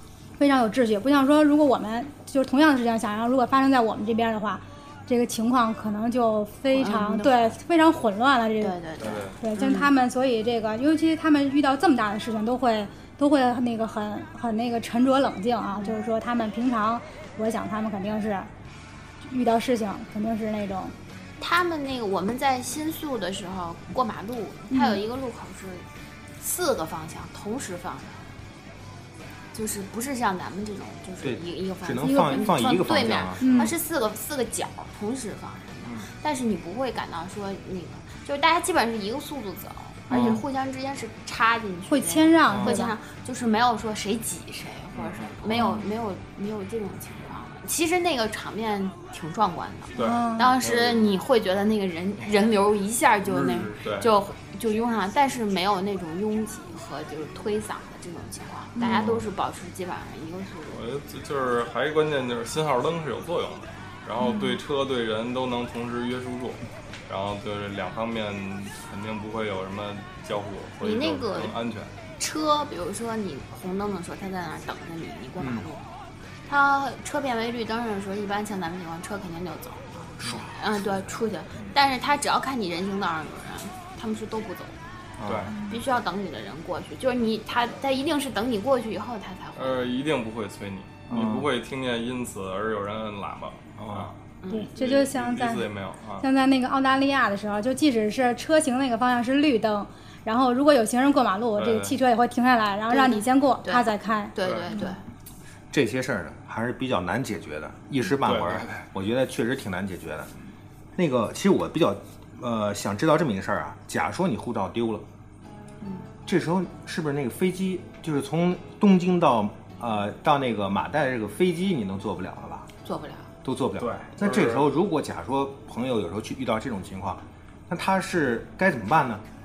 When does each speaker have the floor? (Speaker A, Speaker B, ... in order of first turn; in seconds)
Speaker A: 0.4-8.7, 9.4-18.5, 19.2-20.9, 24.7-25.0, 32.0-32.8, 33.4-33.7, 41.9-42.9, 50.0-50.5, 64.2-64.6, 85.5-85.8, 94.5-95.7, 96.2-104.9
Speaker B: 6.7-7.5, 8.6-9.9, 21.4-25.9, 26.4-28.2, 29.5-60.9, 70.8-71.6, 72.2-75.8, 76.5-84.8, 85.6-89.9, 94.4-94.7, 102.9-105.0, 115.8-116.1, 122.8-123.3
Speaker C: 9.0-9.3, 40.1-40.4, 44.9-45.8, 49.9-51.1, 53.2-54.1, 58.8-59.3, 60.7-71.9, 85.2-85.5, 89.5-94.2, 94.7-96.2, 101.5-102.0, 104.4-104.8, 108.2-108.8, 123.8-124.7
Speaker D: 31.2-33.6, 42.5-42.8, 75.4-75.7, 80.2-80.5, 85.2-85.5, 91.1-91.5, 93.8-94.1, 105.7-110.3, 111.0-115.0, 116.2-122.7, 123.4-129.2